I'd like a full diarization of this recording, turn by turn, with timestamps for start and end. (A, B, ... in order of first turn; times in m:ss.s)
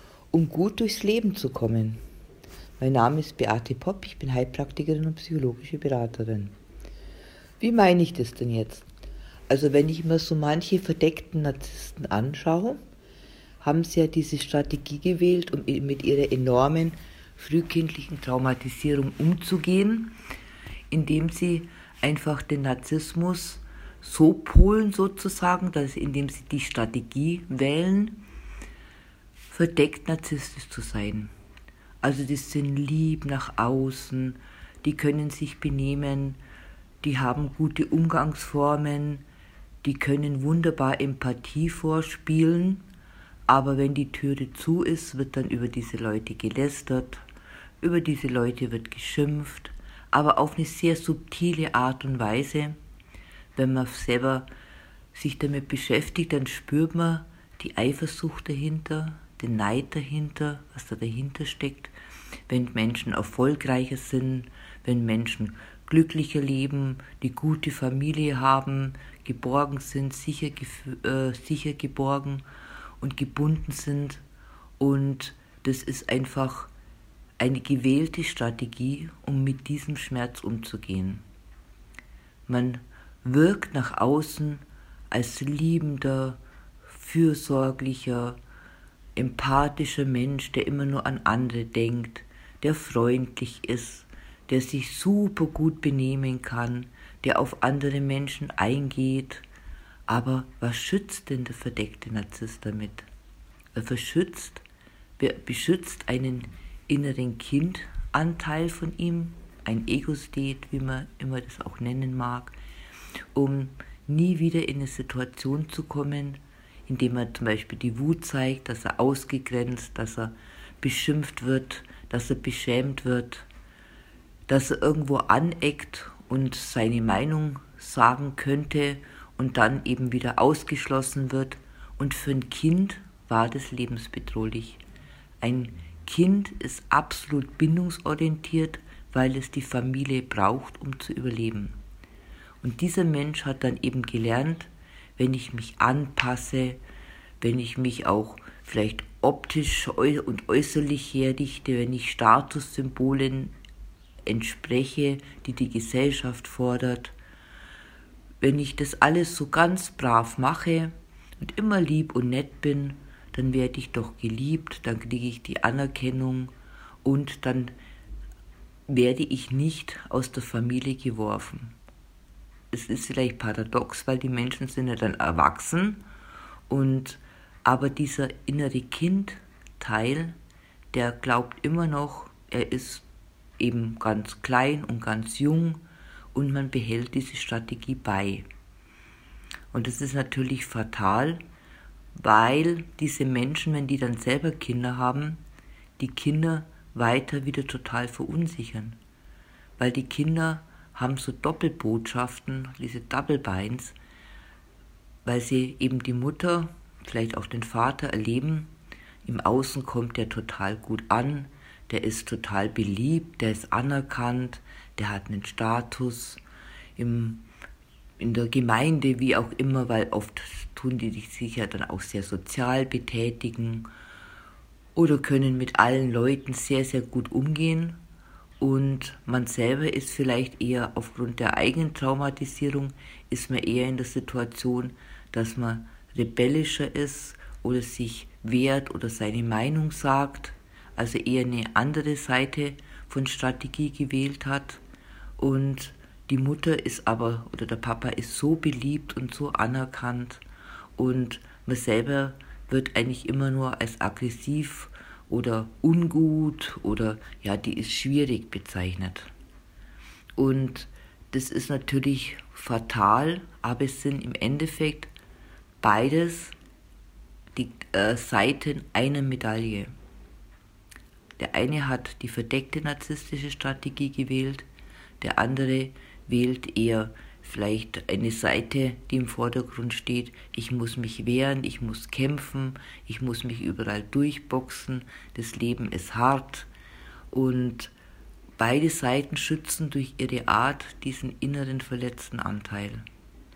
0:00.3-0:02.0 A
0:02.8-0:06.5 A
0:07.6-0:08.9 A
0:09.5-0:12.8 A
0:13.6-0:20.1 A
0:20.9-0:28.2 A
0:29.5-0:31.3 A
0:32.0-0:36.4 A
0:37.0-0:39.2 A
0:39.8-0:42.8 A
0:43.5-0:47.2 A
0:47.8-0:52.8 A
0:53.6-0:54.5 A
0:55.1-1:01.9 A
1:02.5-1:12.4 A
1:13.0-1:14.2 A
1:14.8-1:16.7 A
1:17.4-1:21.2 A
1:22.5-1:28.4 A
1:29.2-1:39.4 A
1:40.1-1:43.1 A
1:43.7-1:44.6 A
1:45.2-1:52.6 A
1:53.3-2:03.4 A
2:04.5-2:14.8 A
2:15.4-2:21.8 A
2:22.6-2:26.8 A
2:27.4-2:33.5 A
2:34.2-2:37.1 A
2:38.4-2:46.5 A
2:47.0-2:47.7 A
2:48.9-2:51.7 A
2:52.7-2:56.0 A
2:56.7-3:00.4 A
3:00.9-3:03.0 A
3:03.6-3:08.4 A
3:09.7-3:11.4 A
3:12.1-3:15.4 A
3:16.0-3:19.0 A
3:19.8-3:24.0 A
3:25.2-3:28.7 A
3:29.2-3:36.4 A
3:37.0-3:37.4 A
3:38.2-3:43.9 A
3:44.9-3:48.0 A
3:48.6-4:04.8 A
4:05.4-4:10.4 A
4:11.0-4:19.3 A
4:20.4-4:25.1 A
4:25.8-4:26.5 A
4:27.5-4:29.9 A
4:31.4-4:34.7 A
4:35.2-4:46.7 A
4:47.3-4:47.9 A
4:48.6-4:53.0 A